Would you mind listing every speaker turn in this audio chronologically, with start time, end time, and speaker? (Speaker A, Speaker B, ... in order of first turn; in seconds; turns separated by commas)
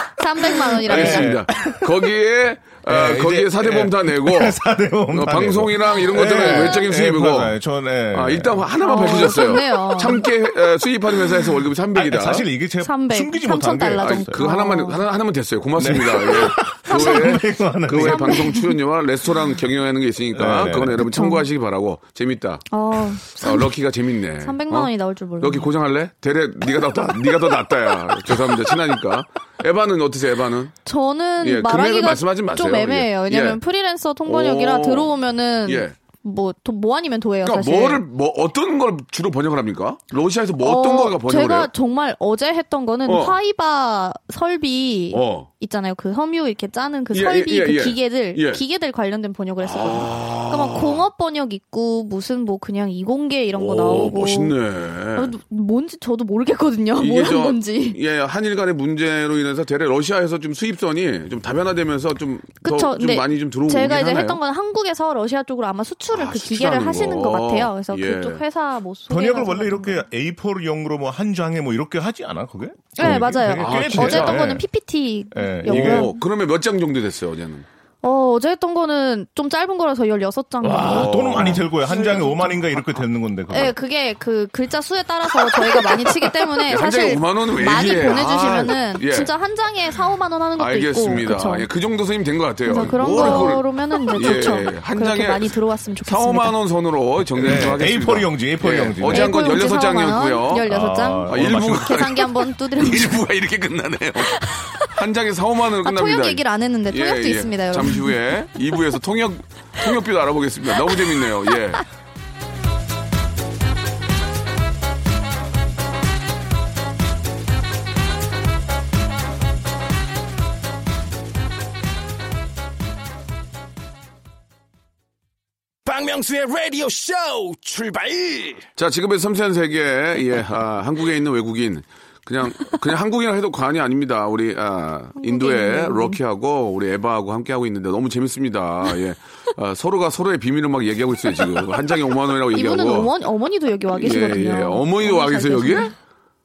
Speaker A: 0.2-1.4, Speaker B: 0.7-2.1, Speaker C: 0.9-4.6, Speaker B: 2.9-8.6, Speaker C: 5.1-7.5, Speaker A: 6.4-6.7, Speaker C: 8.1-12.4, Speaker A: 8.8-10.2, Speaker B: 11.9-14.4, Speaker A: 12.8-15.0, Speaker C: 14.0-30.7, Speaker B: 15.8-18.5, Speaker A: 16.9-17.4, Speaker A: 17.9-18.7, Speaker B: 20.3-21.1, Speaker A: 21.0-21.4, Speaker A: 22.7-23.8, Speaker A: 24.4-25.7, Speaker A: 30.8-38.0, Speaker C: 31.4-33.6, Speaker C: 34.2-35.1, Speaker C: 35.6-35.9, Speaker C: 37.4-41.7, Speaker A: 40.6-54.5, Speaker C: 43.0-43.4, Speaker C: 45.1-45.5, Speaker C: 47.1-48.6, Speaker C: 49.6-51.0, Speaker C: 53.5-55.3, Speaker A: 55.1-58.0, Speaker C: 57.0-64.4, Speaker A: 62.6-70.0, Speaker C: 66.1-68.4, Speaker B: 69.1-74.6, Speaker A: 73.0-76.2, Speaker C: 73.0-74.5, Speaker B: 75.3-76.1, Speaker C: 75.7-77.7, Speaker A: 78.0-82.9, Speaker B: 80.6-83.7, Speaker C: 80.8-81.6, Speaker A: 83.5-91.7, Speaker C: 86.7-89.3, Speaker C: 90.6-95.5, Speaker A: 92.7-96.5, Speaker B: 92.8-93.5, Speaker C: 96.0-100.7, Speaker B: 97.4-99.5, Speaker A: 99.1-103.2, Speaker B: 100.7-102.0, Speaker C: 101.3-111.8, Speaker A: 104.2-104.9, Speaker A: 105.8-108.1, Speaker D: 125.9-128.5, Speaker C: 128.8-143.1, Speaker A: 135.2-136.2, Speaker A: 142.5-145.9, Speaker C: 143.9-145.9